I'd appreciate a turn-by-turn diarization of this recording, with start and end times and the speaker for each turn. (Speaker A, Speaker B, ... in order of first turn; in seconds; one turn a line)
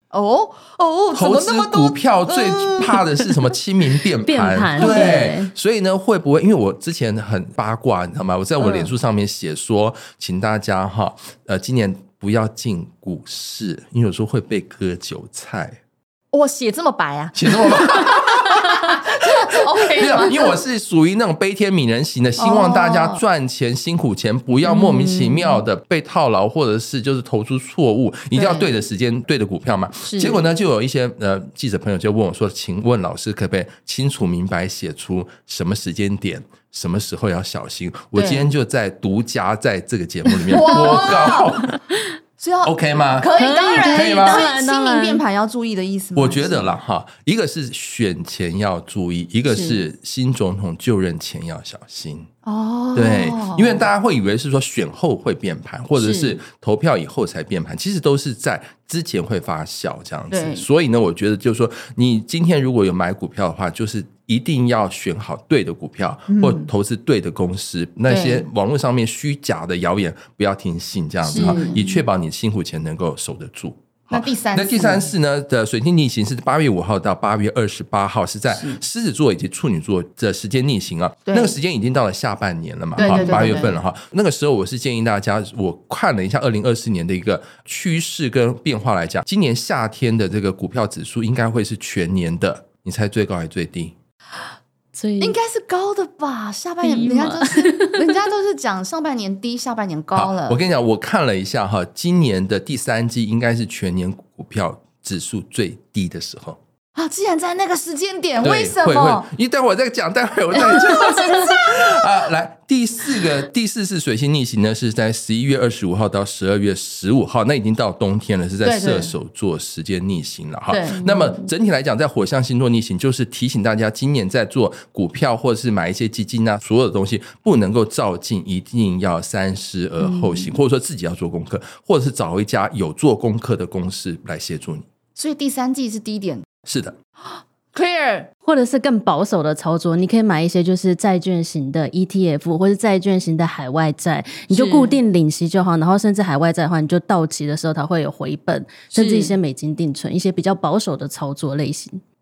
Speaker A: 0.1-3.0
Speaker B: 1.1-15.8
Speaker C: 4.2-5.5
Speaker A: 4.8-5.3
Speaker A: 8.6-8.9
Speaker A: 16.3-20.6
Speaker B: 17.4-18.9
Speaker B: 19.4-41.8
Speaker A: 22.4-23.2
Speaker A: 24.7-25.6
Speaker A: 28.4-28.7
Speaker A: 30.1-30.4
Speaker A: 38.1-38.5
Speaker C: 40.5-41.4
Speaker A: 40.5-41.5
Speaker A: 42.4-46.8
Speaker B: 42.6-44.5
Speaker C: 43.3-45.2
Speaker B: 46.2-52.3
Speaker A: 49.5-49.8
Speaker A: 52.5-53.9
Speaker B: 52.9-94.0
Speaker A: 56.0-56.4
Speaker A: 60.3-60.6
Speaker A: 66.3-66.7
Speaker A: 68.1-68.5
Speaker A: 71.3-71.9
Speaker C: 71.3-72.0
Speaker A: 74.1-75.1
Speaker A: 78.5-78.8
Speaker A: 81.3-81.5
Speaker A: 83.0-83.8
Speaker C: 83.0-83.5
Speaker C: 94.9-95.4
Speaker A: 95.2-100.6
Speaker C: 96.8-98.2
Speaker B: 100.2-106.6
Speaker A: 107.0-109.3
Speaker B: 108.4-134.9
Speaker A: 110.5-112.1
Speaker A: 118.6-119.1
Speaker A: 120.7-121.0
Speaker C: 121.0-121.4
Speaker A: 135.2-136.4
Speaker B: 136.7-137.0
Speaker A: 137.3-138.3
Speaker C: 138.4-152.0
Speaker A: 144.5-145.0
Speaker A: 148.9-149.4